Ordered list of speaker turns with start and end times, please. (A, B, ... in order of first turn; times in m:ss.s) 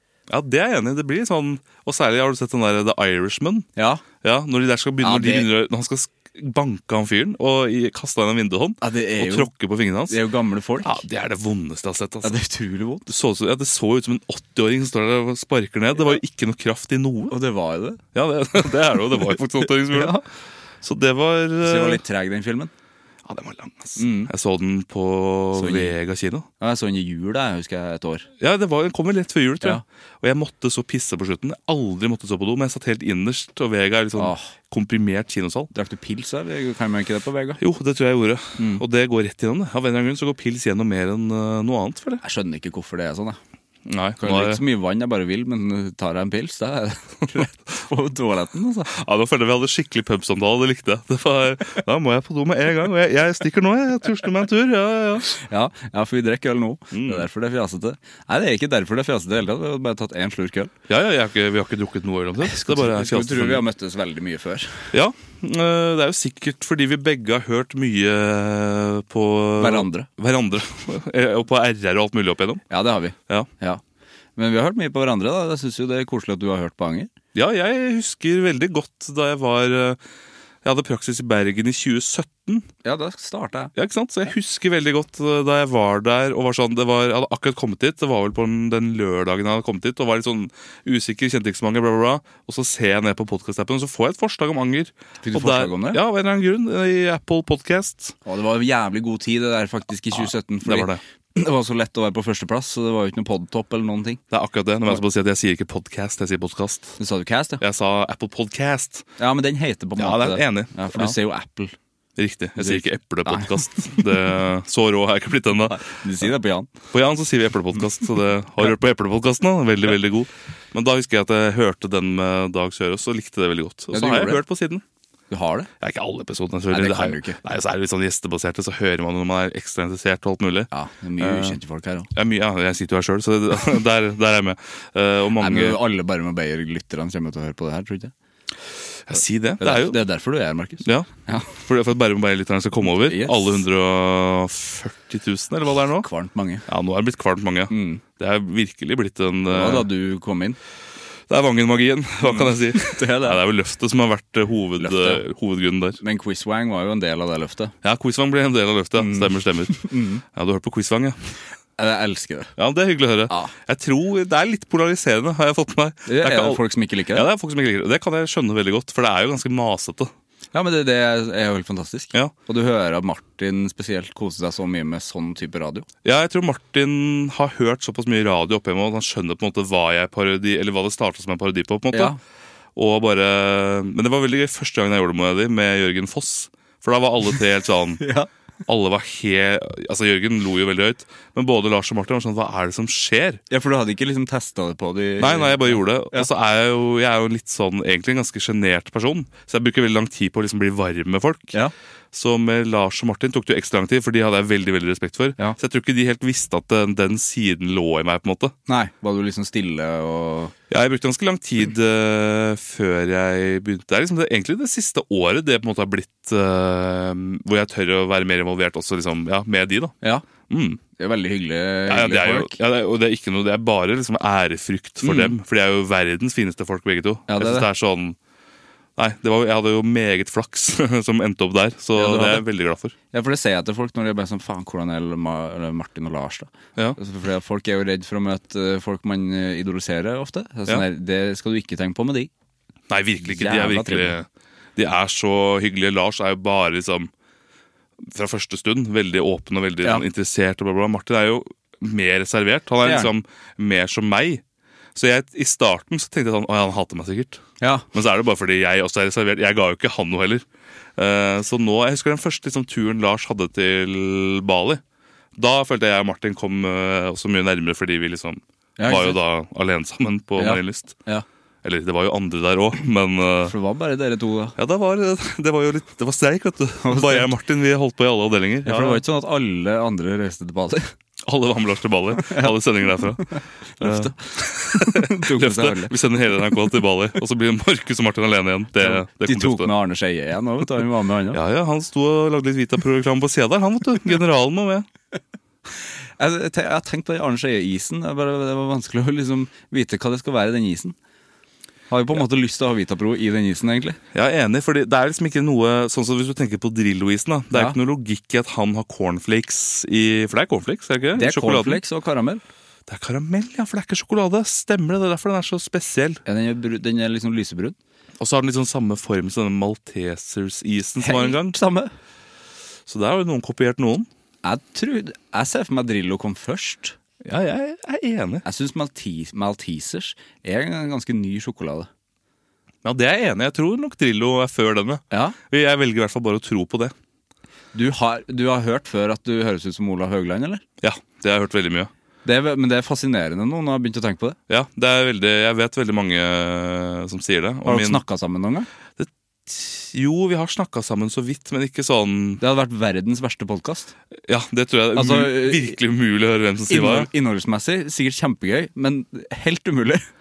0:00.3-0:03.7 A
0:03.8-0:04.0 B
0:04.2-0:10.2 A
0:05.0-0:05.5 B
0:08.8-0:09.5 B
0:10.1-0:11.0 B
0:10.8-0:12.4 A
0:12.2-0:13.1 B
0:13.1-0:17.4 A
0:17.3-0:18.0 B
0:18.1-0:20.2 A
0:19.9-0:20.2 B
0:20.8-0:22.0 A
0:21.6-0:22.7 B
0:23.3-0:26.5 A
0:24.0-0:24.3 B
0:25.6-0:26.0 B
0:26.6-0:28.3 B
0:28.4-0:35.7 A
0:34.2-0:34.5 B
0:35.7-0:37.6 B
0:37.6-0:42.2 A
0:38.6-0:38.8 B
0:42.2-0:43.4 B
0:43.9-0:44.6 A
0:44.2-0:48.9 B
0:48.9-0:55.3 A
0:55.3-1:00.7 B
0:56.9-0:57.3 A
1:00.9-1:03.6 A
1:02.4-1:04.9 B
1:04.9-1:12.7 A
1:09.6-1:10.1 B
1:12.7-1:13.8 B
1:14.4-1:17.1 B
1:17.4-1:20.0 A
1:20.6-1:22.7 A
1:22.8-1:23.7 B
1:23.8-1:38.2 A
1:35.2-1:36.0 B
1:38.2-1:44.2 B
1:40.1-1:41.0 A
1:44.3-1:47.0 A
1:47.0-1:47.6 B
1:47.6-1:49.1 A
1:49.2-1:51.8 B
1:50.0-1:51.2 A
1:52.2-1:55.8 A
1:52.6-1:54.0 B
1:55.7-1:56.7 B
1:56.9-2:04.8 A
2:03.9-2:04.4 B
2:05.3-2:05.7 B
2:05.8-2:10.7 A
2:06.7-2:07.4 B
2:10.7-2:12.1 B
2:11.2-2:11.6 A
2:12.1-2:15.8 A
2:15.4-2:18.1 B
2:19.1-2:20.0 A
2:19.6-2:21.5 B
2:20.8-2:26.1 A
2:23.0-2:23.6 B
2:26.0-2:26.7 B
2:26.7-2:29.9 A
2:27.7-2:28.0 B
2:29.5-2:30.6 B
2:31.3-2:36.0 A
2:32.2-2:33.4 B
2:34.8-2:35.2 B
2:36.0-2:37.7 B
2:37.8-2:41.2 A
2:39.0-2:40.2 B
2:41.8-2:42.5 B
2:42.6-2:50.1 A
2:46.1-2:47.3 B
2:50.5-2:55.9 B
2:56.0-3:02.2 A
3:01.9-3:02.2 B
3:02.8-3:08.0 A
3:08.0-3:08.3 B
3:08.7-3:13.4 A
3:13.5-3:16.3 B
3:15.2-3:21.6 A
3:22.1-3:28.5 A
3:28.7-3:30.5 B
3:30.7-3:40.0 A
3:40.0-3:40.3 B
3:40.5-3:40.8 A
3:41.0-3:42.6 B
3:41.9-3:48.2 A
3:45.0-3:45.4 B
3:47.3-3:47.7 B
3:49.0-3:53.0 A
3:52.0-3:52.4 B
3:53.1-4:02.3 B
4:02.9-4:07.1 A
4:03.2-4:04.2 B
4:08.0-4:14.4 A
4:12.8-4:13.1 B
4:15.0-4:20.4 A
4:21.0-4:24.8 A
4:25.4-4:31.0 A
4:28.8-4:29.2 B
4:30.4-4:31.2 B
4:31.6-4:33.5 A
4:33.5-4:34.6 B
4:34.6-4:39.0 A
4:36.8-4:37.3 B
4:38.6-4:40.9 B
4:41.3-4:49.7 A
4:42.2-4:42.6 B
4:43.8-4:45.9 B
4:48.8-4:51.4 B
4:51.3-4:54.9 A
4:56.2-5:01.0 B
5:01.9-5:04.0 B
5:04.1-5:11.8 A
5:11.2-5:12.4 B
5:12.9-5:16.2 A
5:16.3-5:17.8 B
5:18.2-5:21.6 A
5:21.0-5:21.9 B
5:22.9-5:24.1 A
5:24.4-5:27.0 B
5:27.2-5:28.4 A
5:28.4-5:31.9 B
5:32.8-5:36.9 A
5:35.1-5:35.4 B
5:37.7-5:40.6 B
5:40.8-5:41.9 A
5:42.2-5:44.4 B
5:44.5-5:48.0 A
5:47.6-5:48.7 B
5:49.0-5:52.4 A
5:52.4-5:53.9 B
5:54.3-5:57.1 A
5:55.0-5:55.8 B
5:56.7-6:00.1 B